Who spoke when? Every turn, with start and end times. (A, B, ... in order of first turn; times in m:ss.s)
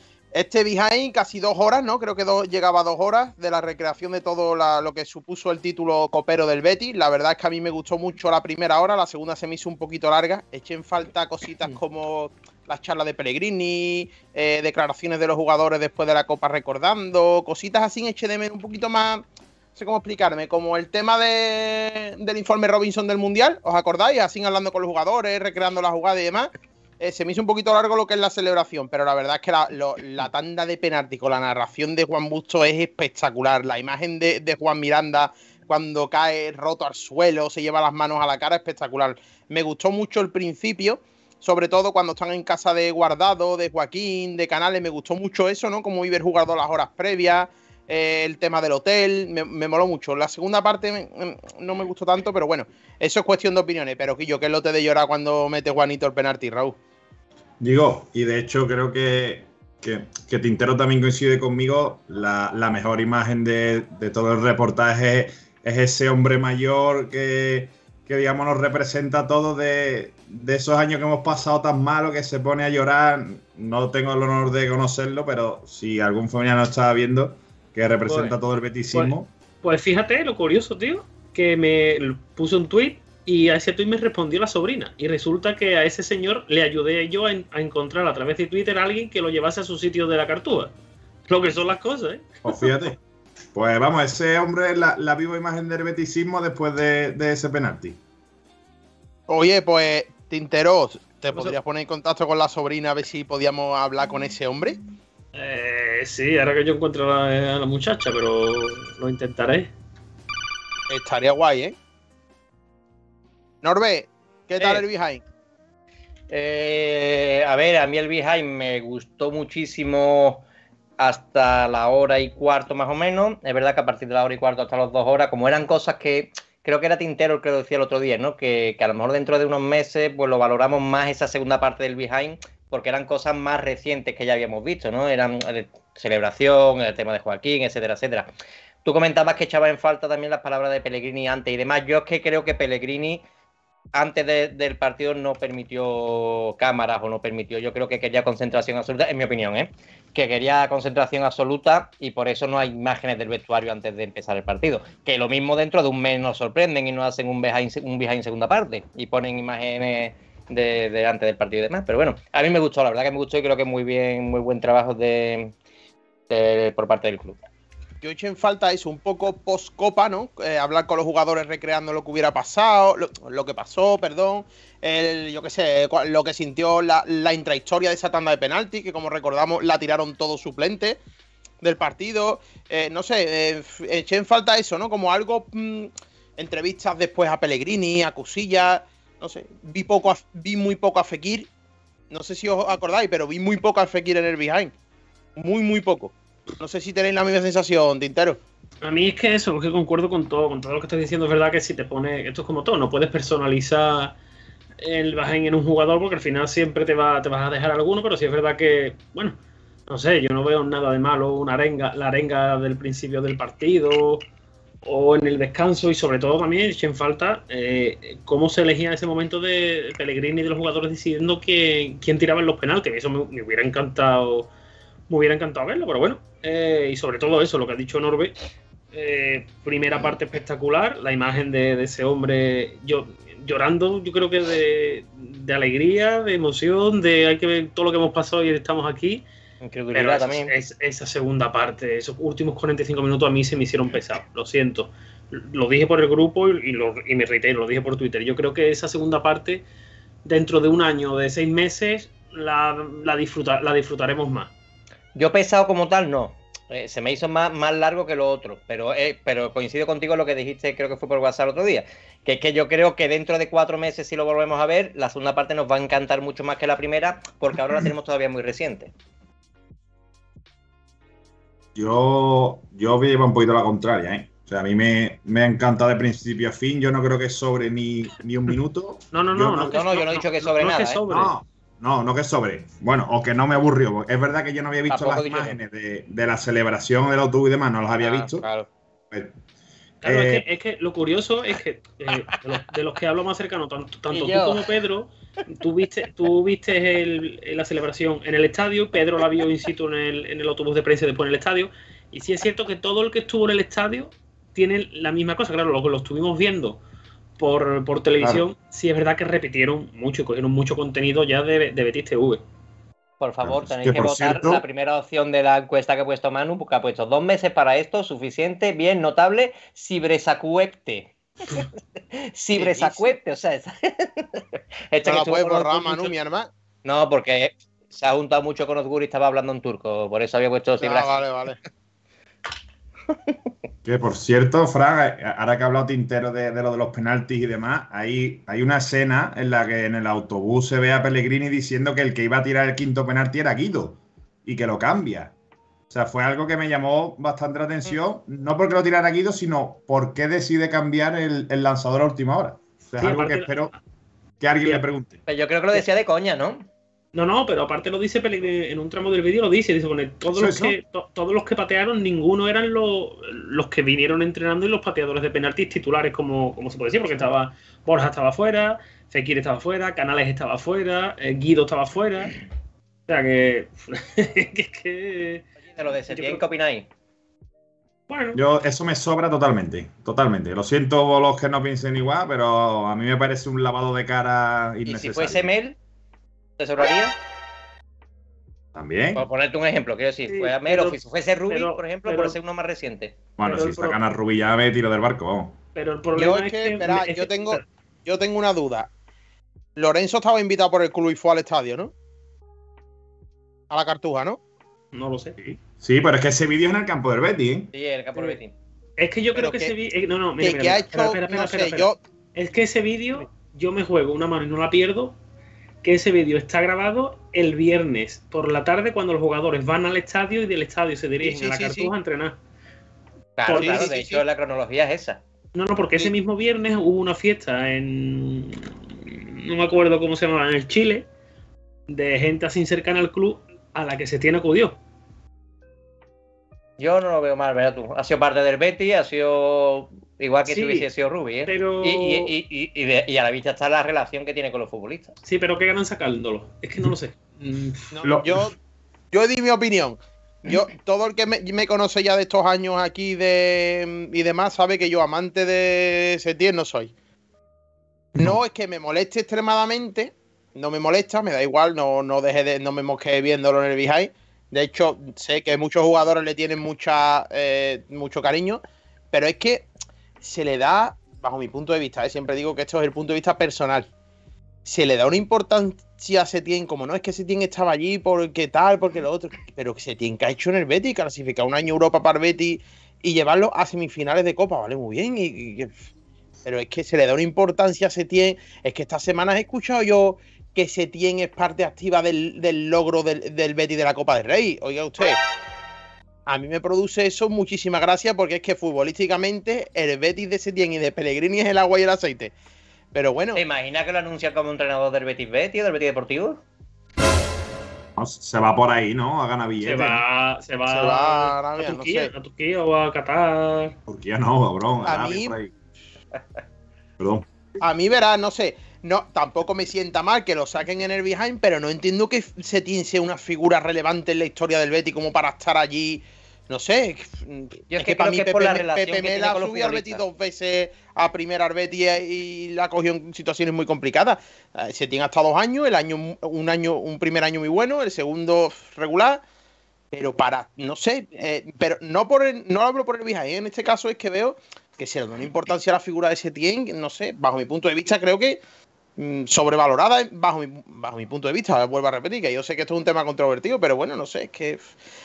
0:00.3-0:56.8 A
0:57.6-1:19.3 B
1:18.1-1:18.4 C
1:18.9-1:30.7 C
1:31.3-1:32.3 C
1:32.4-1:33.0 B
1:33.5-1:38.0 B
1:39.3-1:44.8 A
1:45.3-1:49.7 C
1:50.9-1:51.7 A
1:53.6-1:55.2 A
1:54.6-1:54.8 D
1:56.3-2:00.4 D
2:01.0-2:18.3 D
2:18.8-2:23.2 D
2:23.9-2:45.5 D
2:46.3-2:47.4 D
2:48.0-3:01.0 A
3:01.6-3:11.5 A
3:12.1-3:14.7 A
3:15.4-3:18.4 A
3:18.8-3:24.2 C
3:24.8-3:29.4 C
3:29.9-3:34.2 C
3:34.8-3:44.5 C
3:45.1-3:48.3 C
3:48.9-3:59.2 C
3:59.6-4:00.5 D
3:59.9-4:09.6 C
4:10.2-4:14.5 C
4:15.1-4:28.9 D
4:31.7-4:39.8 B
4:39.1-4:41.3 C
4:39.7-4:41.0 D
4:41.1-4:48.5 B
4:44.9-4:45.6 D
4:48.0-4:48.7 D
4:50.0-4:50.4 B
4:50.0-5:06.8 C
4:54.1-4:54.7 D
5:07.4-5:12.4 C
5:13.2-5:26.1 D
5:13.4-5:14.6 B
5:22.6-5:23.1 A
5:25.0-5:26.5 A
5:26.8-5:31.2 D
5:30.8-5:31.6 A
5:33.8-5:45.3 B
5:45.9-5:53.7 B
5:53.0-5:53.6 C
5:54.4-5:55.2 B
5:55.2-5:56.6 D
5:57.1-6:12.4 C
6:00.3-6:00.8 B
6:13.1-6:15.4 C
6:15.7-6:16.9 D
6:16.1-6:16.4 C
6:18.1-6:18.4 C
6:18.3-6:25.5 B
6:24.8-6:25.8 D
6:26.6-6:27.2 D
6:28.7-6:29.2 B
6:29.1-6:33.2 D
6:30.3-6:32.4 C
6:33.4-6:35.6 B
6:33.4-6:34.0 C
6:35.7-6:37.6 C
6:36.2-6:38.9 A
6:39.8-6:41.9 A
6:43.7-6:44.4 A
6:44.9-6:45.5 C
6:45.5-6:47.7 B
6:47.7-6:48.5 D
6:49.0-6:55.1 C
6:49.3-6:49.7 A
6:50.4-6:52.0 A
6:55.8-7:02.4 C
7:01.2-7:01.9 A
7:03.4-7:05.2 D
7:03.5-7:03.9 C
7:03.5-7:04.2 A
7:05.5-7:11.1 C
7:11.9-7:14.8 C
7:16.8-7:25.1 D
7:20.5-7:20.9 C
7:21.5-7:22.3 C
7:25.2-7:27.9 C
7:27.9-7:28.5 A
7:29.1-7:36.9 A
7:38.2-7:49.7 A
7:50.2-7:53.9 A
7:54.6-8:05.7 A
8:06.4-8:15.2 A
8:16.3-8:22.3 A
8:22.9-8:23.4 A
8:23.3-8:26.4 D
8:28.0-8:30.0 B
8:29.6-8:33.8 C
8:30.7-8:32.1 A
8:33.9-8:35.5 B
8:34.8-8:35.3 A
8:37.0-8:37.3 B
8:37.6-8:59.2 A
8:47.7-8:50.0 D
8:59.9-9:08.4 A
9:09.0-9:14.7 A